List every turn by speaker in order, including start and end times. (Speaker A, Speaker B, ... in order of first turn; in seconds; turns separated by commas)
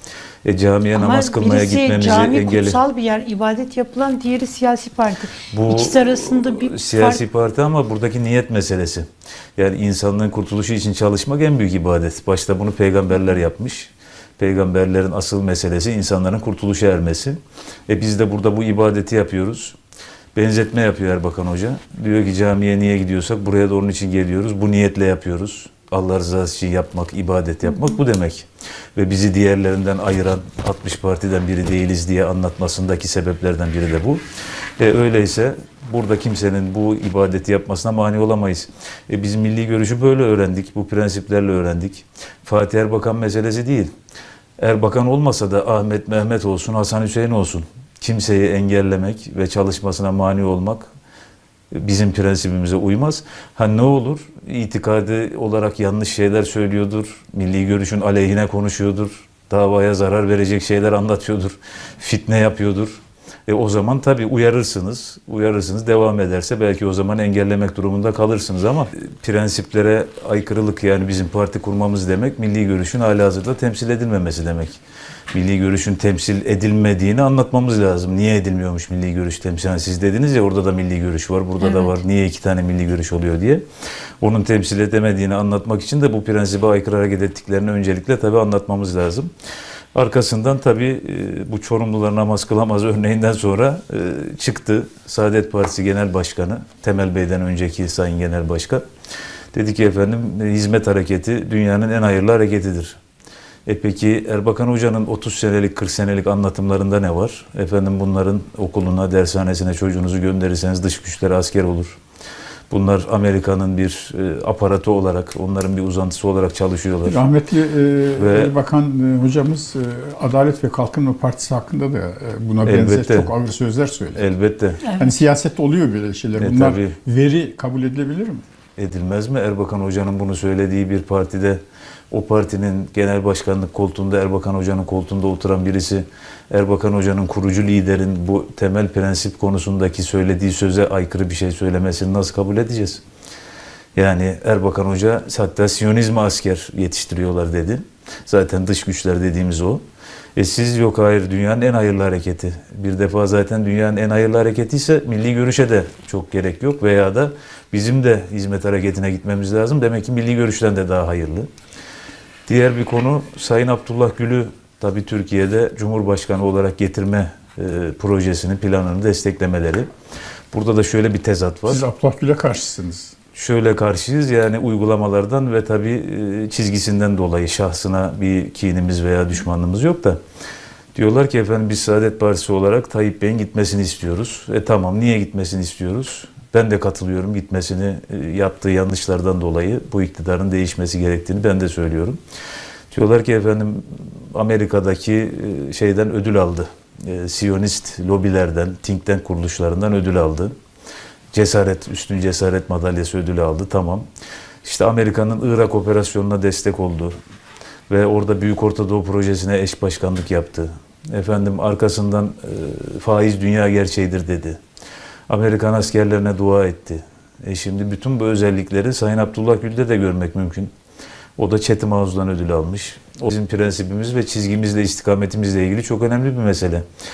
Speaker A: 0.4-2.8, Speaker B: 0.9-7.2, Speaker A: 5.5-19.8, Speaker A: 20.4-34.2, Speaker A: 34.8-43.9, Speaker A: 44.6-50.9, Speaker A: 51.7-74.8, Speaker A: 75.3-83.6, Speaker B: 81.6-81.9, Speaker A: 84.2-89.3, Speaker A: 89.9-98.8, Speaker A: 99.5-103.0, Speaker A: 103.7-112.0, Speaker A: 112.7-117.3, Speaker C: 117.0-124.2, Speaker A: 118.2-118.5, Speaker A: 122.6-123.3, Speaker A: 124.2-124.8, Speaker C: 124.9-128.4, Speaker A: 126.4-127.0, Speaker A: 128.8-131.6, Speaker A: 132.1-143.0, Speaker A: 143.9-149.8, Speaker A: 150.4-161.5, Speaker A: 162.5-169.9, Speaker A: 170.5-171.8, Speaker C: 171.7-173.2, Speaker A: 173.3-180.2, Speaker A: 180.9-192.2, Speaker A: 192.9-200.5, Speaker A: 201.3-204.1, Speaker A: 204.6-207.2, Speaker A: 207.9-214.6, Speaker A: 215.3-220.7, Speaker A: 221.4-226.8